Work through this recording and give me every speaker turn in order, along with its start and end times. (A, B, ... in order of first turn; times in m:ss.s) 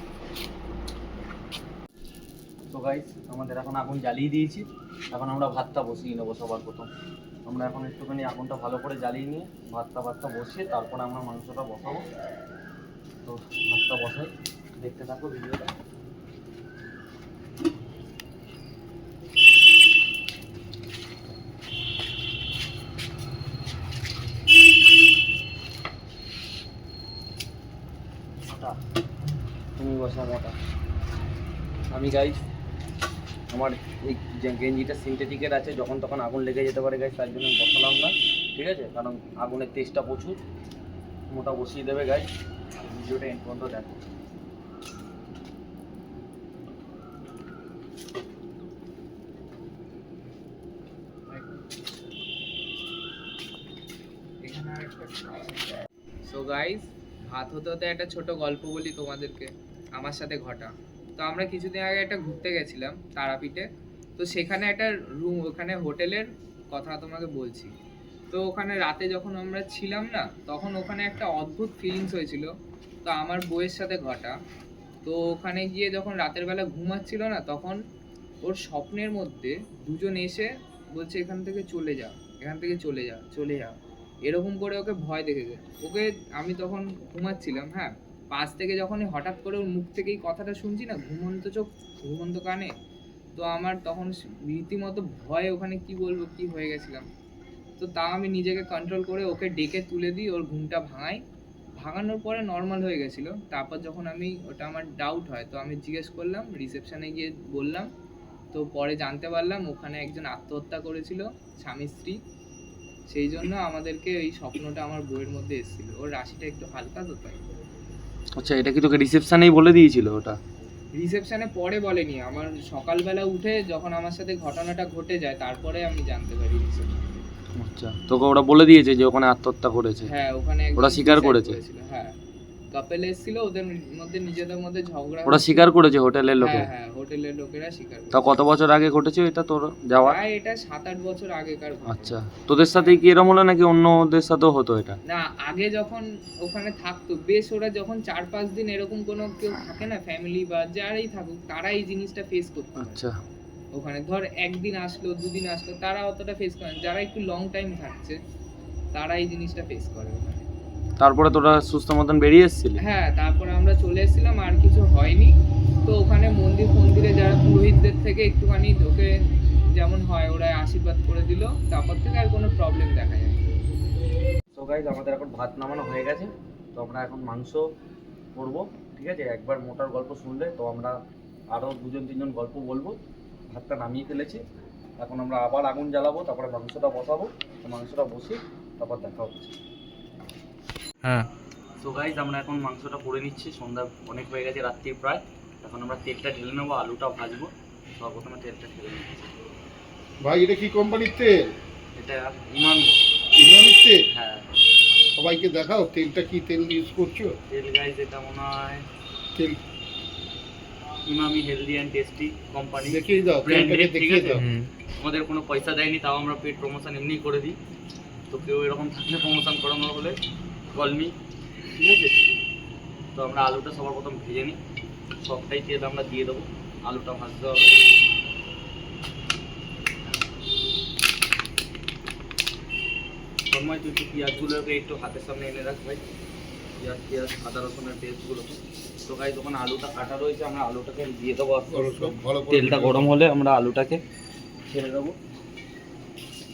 0:02.7-0:06.9 A
0:07.4-0:12.0 A
0:13.2-0:15.7 A
0:28.4-0:28.8 A
0:29.8-0:30.6 A
0:31.9-0:32.4 A
0:33.5-0:40.4 A
0:41.3-0:42.3 A
0:42.8-0:44.0 A
0:51.3-0:52.0 B
0:54.4-0:55.7 B
0:56.2-1:03.7 B
1:04.2-1:07.7 B
1:08.3-1:12.5 B
1:13.0-1:14.4 B
1:15.0-1:17.8 B
1:18.4-1:32.7 B
1:33.3-1:37.1 B
1:37.8-1:41.2 B
1:41.8-1:47.9 B
1:48.5-1:52.2 B
1:53.1-1:57.4 B
1:58.4-2:00.4 A
2:00.9-2:07.0 B
2:07.6-2:10.1 A
2:10.0-2:12.1 B
2:10.8-2:11.6 A
2:12.7-2:15.7 B
2:15.2-2:16.7 A
2:16.4-2:18.2 B
2:18.1-2:20.2 A
2:20.0-2:22.2 B
2:21.8-2:25.0 A
2:25.1-2:33.0 B
2:32.8-2:33.1 A
2:33.7-2:38.2 B
2:38.9-2:40.4 B
2:41.0-2:42.8 A
2:42.8-2:45.3 B
2:45.8-2:49.1 B
2:49.7-2:53.4 B
2:54.5-2:57.6 A
2:58.3-3:01.0 A
3:01.5-3:03.0 A
3:03.5-3:04.4 A
3:05.0-3:09.5 A
3:11.0-3:11.3 B
3:11.8-3:19.3 A
3:20.2-3:21.4 C
3:22.0-3:22.9 A
3:23.4-3:24.0 C
3:24.1-3:24.4 A
3:25.2-3:27.3 C
3:27.5-3:28.8 A
3:29.3-3:29.6 C
3:31.0-3:34.4 A
3:32.8-3:34.4 C
3:34.3-3:34.7 B
3:35.0-3:37.6 A
3:38.3-3:40.2 A
3:40.7-3:41.2 A
3:41.7-3:42.2 A
3:43.1-3:44.6 A
3:45.2-3:47.7 A
3:53.5-3:56.0 A
3:56.8-4:04.0 A
4:01.7-4:03.1 C
4:04.7-4:05.2 A